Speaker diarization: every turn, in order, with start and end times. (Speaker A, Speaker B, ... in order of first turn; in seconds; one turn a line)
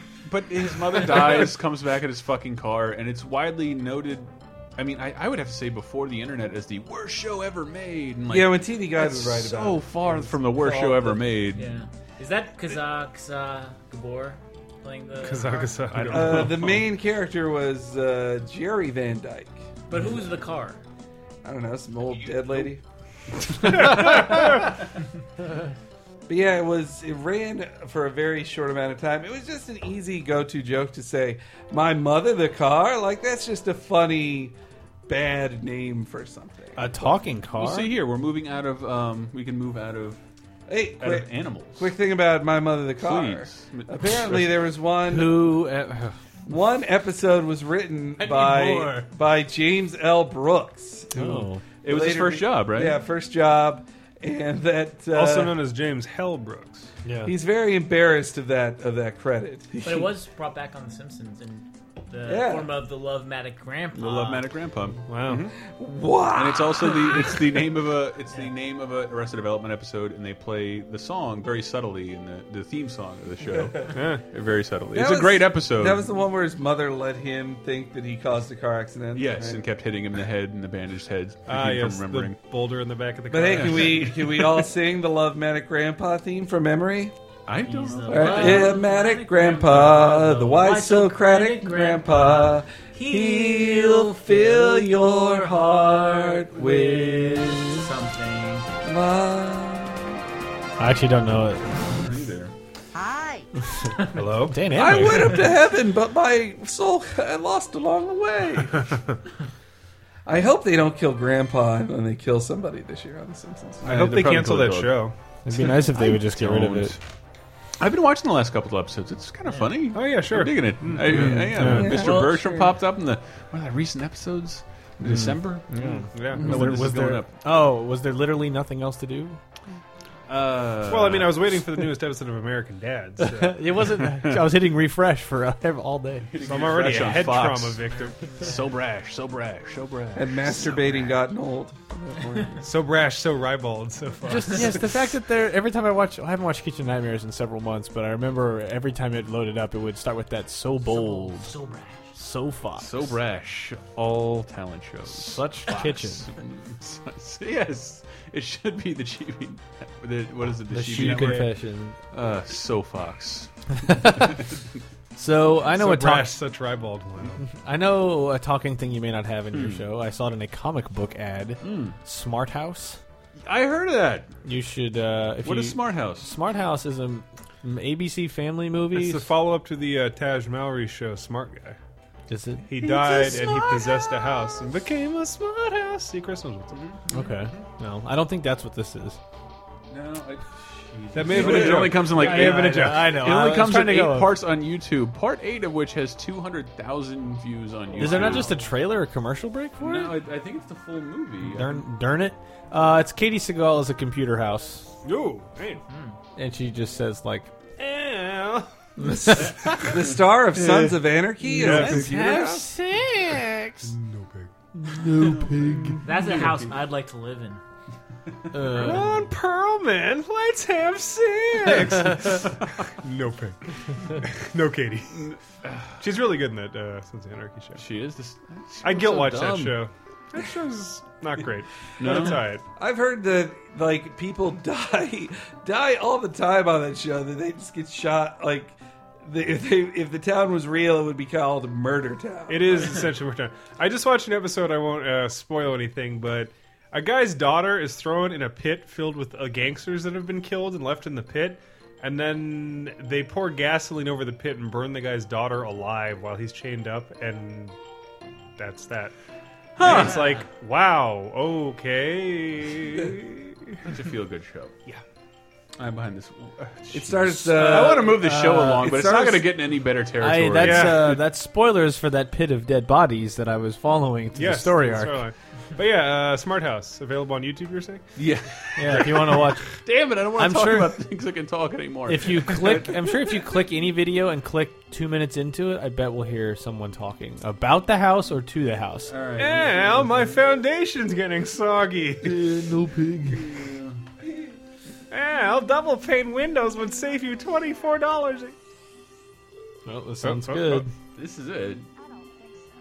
Speaker A: 0.3-11.8
Speaker B: 8.3-11.3
Speaker C: 11.5-15.9
Speaker D: 15.2-16.7
Speaker A: 15.9-16.8
Speaker B: 16.1-19.6
Speaker C: 19.9-20.8
Speaker B: 21.4-22.8
Speaker D: 23.6-24.7
Speaker B: 26.3-34.6
Speaker B: 35.1-37.1
Speaker E: 36.8-37.9
Speaker A: 37.6-40.2
Speaker B: 40.7-45.5
Speaker A: 41.0-41.9
Speaker A: 43.0-44.6
Speaker E: 45.1-46.2
Speaker B: 46.5-55.7
Speaker E: 48.2-49.1
Speaker E: 51.1-51.6
Speaker A: 51.8-53.0
Speaker D: 55.1-57.0
Speaker E: 57.0-57.3
Speaker B: 57.2-60.1
Speaker C: 59.8-64.5
Speaker B: 62.2-62.7
Speaker A: 64.0-65.5
Speaker D: 65.1-65.5
Speaker B: 65.6-67.7
Speaker A: 66.3-76.1
Speaker D: 73.9-74.2
Speaker B: 74.9-79.6
Speaker A: 79.1-82.4
Speaker D: 81.5-84.4
Speaker B: 83.3-87.1
Speaker A: 83.5-84.3
Speaker A: 87.5-88.8
Speaker C: 87.7-98.7
Speaker B: 88.1-97.9
Speaker B: 98.8-100.2
Speaker E: 100.8-101.8
Speaker A: 101.8-102.5
Speaker D: 104.1-104.9
Speaker E: 104.5-105.4
Speaker B: 104.8-109.0
Speaker D: 108.9-109.2
Speaker B: 110.3-114.1
Speaker A: 113.8-115.0
Speaker D: 113.8-115.1
Speaker E: 115.5-117.0
Speaker A: 115.5-117.0
Speaker A: 117.8-127.3
Speaker D: 119.9-121.9
Speaker E: 121.0-121.9
Speaker B: 121.8-122.5
Speaker C: 122.0-122.7
Speaker E: 125.0-129.4
Speaker D: 125.8-126.8
Speaker A: 130.3-131.6
Speaker D: 130.9-133.6
Speaker E: 133.2-136.3
Speaker A: 136.3-141.2
Speaker D: 136.4-138.4
Speaker B: 140.2-142.6
Speaker D: 142.6-144.9
Speaker E: 144.3-151.6
Speaker C: 150.8-152.1
Speaker E: 152.2-152.9
Speaker A: 152.8-161.5
Speaker E: 155.1-156.3
Speaker E: 160.7-162.0
Speaker D: 160.9-161.5
Speaker A: 162.1-164.6
Speaker E: 163.8-164.4
Speaker E: 165.2-166.4
Speaker D: 165.7-167.4
Speaker E: 167.4-173.0
Speaker A: 169.5-169.9
Speaker A: 171.6-172.0
Speaker A: 173.4-174.3
Speaker E: 174.4-179.3
Speaker A: 175.4-176.3
Speaker D: 178.9-181.8
Speaker E: 182.3-183.7
Speaker D: 182.7-186.8
Speaker A: 183.2-183.5
Speaker A: 186.7-187.6
Speaker E: 187.1-189.2
Speaker A: 189.9-198.5
Speaker D: 191.1-193.2
Speaker E: 191.3-194.4
Speaker D: 198.0-198.7
Speaker E: 198.0-200.2
Speaker A: 199.8-201.8
Speaker E: 201.5-204.9
Speaker D: 205.0-205.8
Speaker C: 205.9-206.2
Speaker E: 206.4-207.5
Speaker D: 207.8-209.5
Speaker E: 209.0-209.9
Speaker B: 209.8-212.7
Speaker E: 210.6-213.9
Speaker D: 211.6-212.1
Speaker D: 213.8-214.5
Speaker E: 214.8-216.0
Speaker A: 215.2-216.7
Speaker C: 216.0-217.6
Speaker E: 218.5-219.2
Speaker D: 218.7-225.3
Speaker E: 221.9-222.2
Speaker A: 225.1-226.0
Speaker D: 226.0-227.8
Speaker A: 227.8-229.8
Speaker D: 228.8-232.6
Speaker A: 232.0-232.4
Speaker B: 232.1-243.1
Speaker D: 242.5-257.8
Speaker D: 258.6-259.1
Speaker A: 259.8-260.3
Speaker D: 259.8-263.8
Speaker A: 263.9-264.8
Speaker A: 265.8-271.2
Speaker B: 266.9-269.5
Speaker E: 267.8-268.9
Speaker E: 270.2-275.2
Speaker D: 270.6-271.2
Speaker D: 274.4-278.0
Speaker A: 278.2-283.0
Speaker E: 278.8-279.7
Speaker E: 280.4-281.0
Speaker E: 282.1-289.1
Speaker A: 289.1-290.2
Speaker D: 289.4-292.4
Speaker E: 292.2-293.5
Speaker A: 293.3-294.0
Speaker D: 295.1-298.6
Speaker E: 299.9-300.9
Speaker D: 300.2-300.9
Speaker A: 301.1-301.9